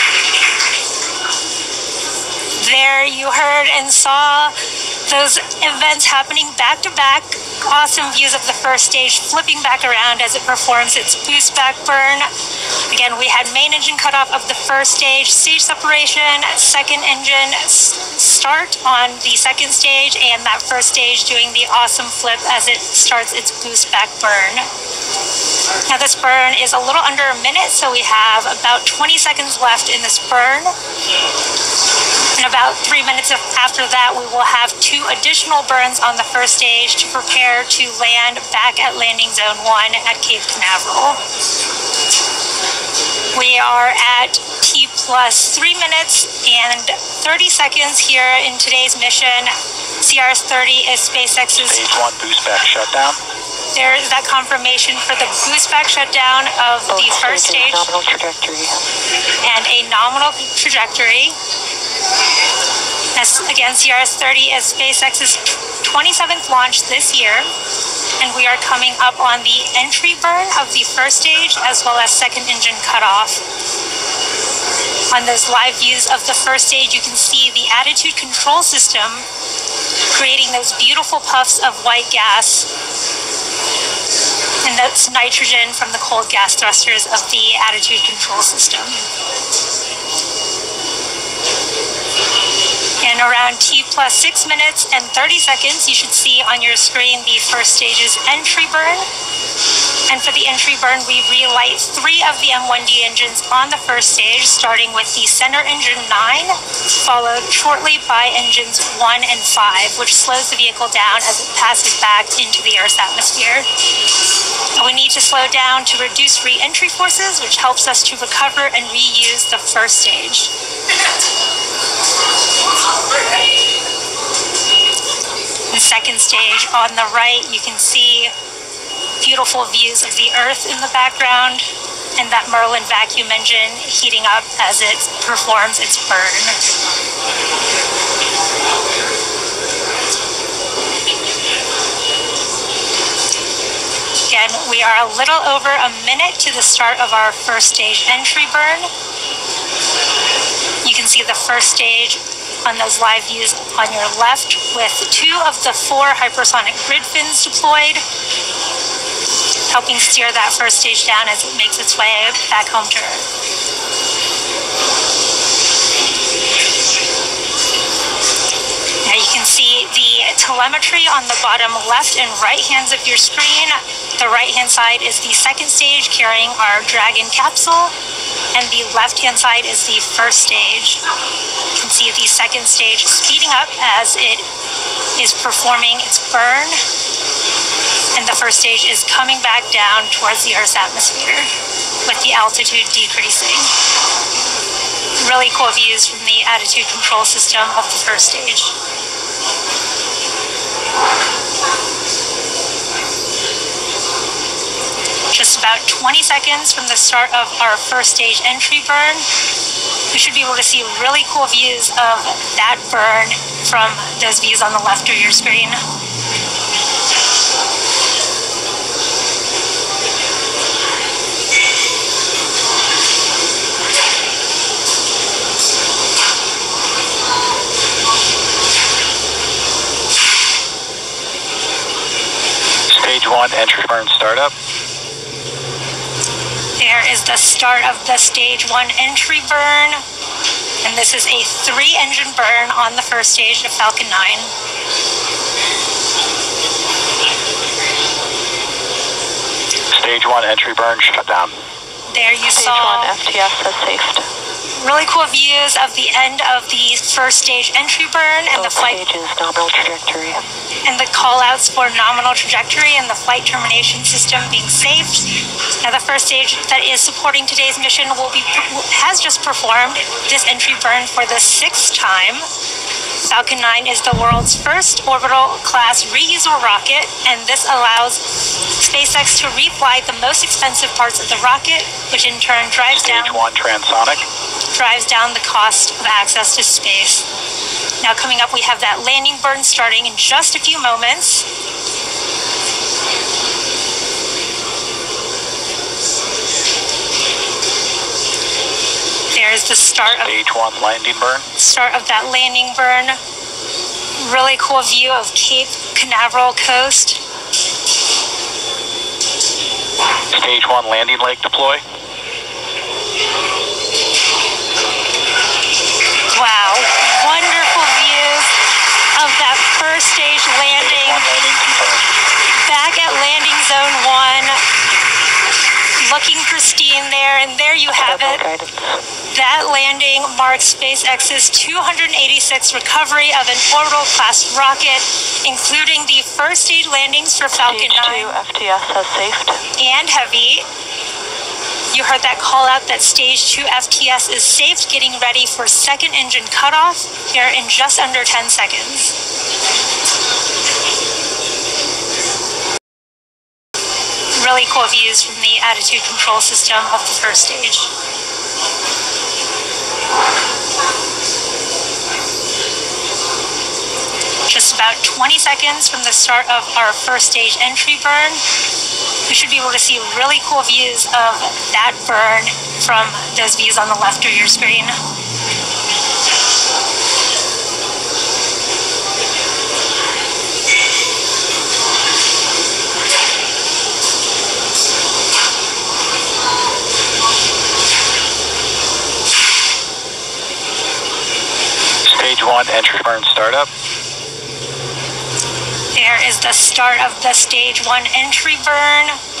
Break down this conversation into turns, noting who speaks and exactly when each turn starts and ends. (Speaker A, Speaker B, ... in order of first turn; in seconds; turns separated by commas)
Speaker A: 2.6-4.5, Speaker A: 5.1-12.3, Speaker A: 12.9-24.7, Speaker A: 25.9-30.7, Speaker A: 32.4-41.2, Speaker A: 43.3-51.9, Speaker B: 51.6-53.2, Speaker A: 53.7-57.9, Speaker C: 56.9-58.8, Speaker A: 59.4-61.4, Speaker A: 63.1-67.5, Speaker A: 68.2-73.4, Speaker A: 75.1-79.3, Speaker A: 80.1-82.7, Speaker A: 84.6-89.0, Speaker A: 93.0-99.1, Speaker A: 100.1-113.7, Speaker A: 114.8-120.5, Speaker A: 125.7-128.3, Speaker A: 129.2-136.6, Speaker A: 144.3-148.9, Speaker A: 150.8-158.0, Speaker A: 159.7-163.2, Speaker A: 169.0-177.9, Speaker A: 178.5-181.0, Speaker A: 181.8-184.5, Speaker A: 185.2-186.8, Speaker A: 188.1-191.5, Speaker A: 192.0-193.7, Speaker A: 195.2-198.7, Speaker A: 205.3-209.3, Speaker A: 210.1-215.8, Speaker B: 232.9-234.5, Speaker A: 236.8-240.0, Speaker A: 240.8-244.5, Speaker B: 249.9-251.5, Speaker A: 252.1-253.1, Speaker C: 252.5-254.2, Speaker A: 254.8-259.0, Speaker C: 258.5-260.4, Speaker A: 260.9-265.3, Speaker A: 265.8-272.5, Speaker A: 273.2-283.4, Speaker B: 282.9-284.2, Speaker A: 284.7-287.2, Speaker A: 288.0-291.4, Speaker A: 299.3-300.4, Speaker B: 300.0-301.5, Speaker A: 301.6-303.2, Speaker A: 304.2-307.2, Speaker B: 310.3-311.8, Speaker A: 316.3-318.5, Speaker A: 319.1-321.2, Speaker B: 320.6-322.1, Speaker A: 322.6-324.6, Speaker A: 326.0-328.4, Speaker C: 328.0-329.0, Speaker A: 329.3-338.4, Speaker C: 337.5-339.6, Speaker A: 339.8-340.6, Speaker A: 341.9-349.1, Speaker A: 354.4-357.9, Speaker A: 364.5-368.4, Speaker A: 369.2-375.0, Speaker B: 392.1-393.7, Speaker A: 395.9-399.2